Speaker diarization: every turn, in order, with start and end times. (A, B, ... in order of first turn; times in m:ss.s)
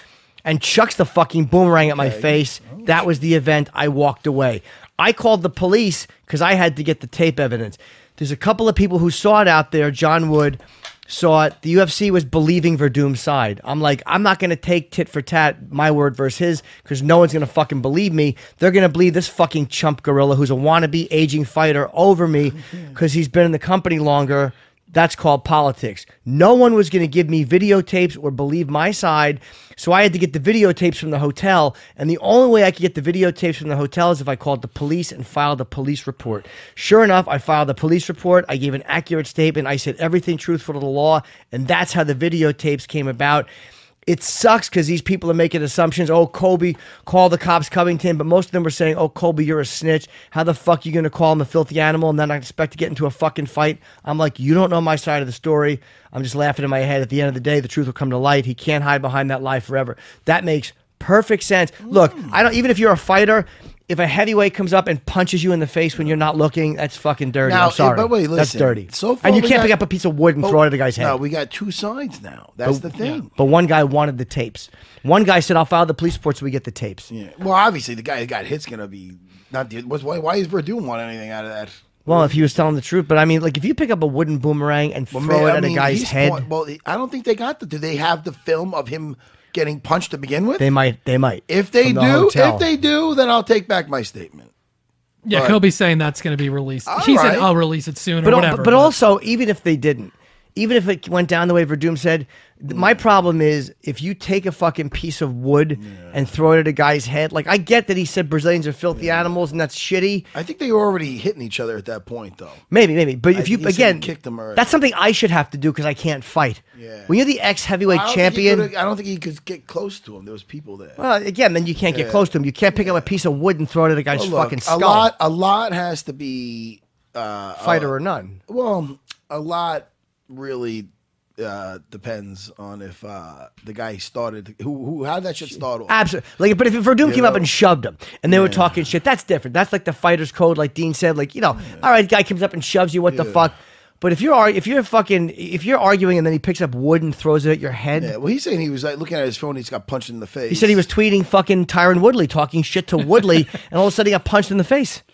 0:00.4-0:43.5 A
0:02.0-0:02.9 B
0:44.1-1:11.2 A
1:01.9-1:02.4 B
1:07.4-1:09.8 B
1:10.4-1:13.3 B
1:12.6-1:17.1 A
1:17.1-1:22.6 B
1:22.1-1:26.5 A
1:25.1-1:30.7 B
1:30.6-1:32.7 A
1:31.5-1:34.5 B
1:35.3-1:39.0 C
1:35.3-1:35.6 B
1:36.9-1:37.5 B
1:38.2-1:50.3 A
1:45.8-1:46.2 B
1:48.9-1:49.3 B
1:50.3-1:52.6 B
1:52.7-1:58.7 A
1:53.3-1:54.8 B
1:56.8-1:57.2 B
1:57.9-2:01.0 B
2:01.0-2:05.1 A
2:01.9-2:03.1 B
2:04.1-2:07.9 B
2:07.6-2:08.4 A
2:08.5-2:16.0 B
2:15.9-2:28.1 A
2:17.0-2:17.5 B
2:18.3-2:18.9 B
2:23.1-2:23.5 B
2:28.0-2:30.8 B
2:30.5-2:35.0 A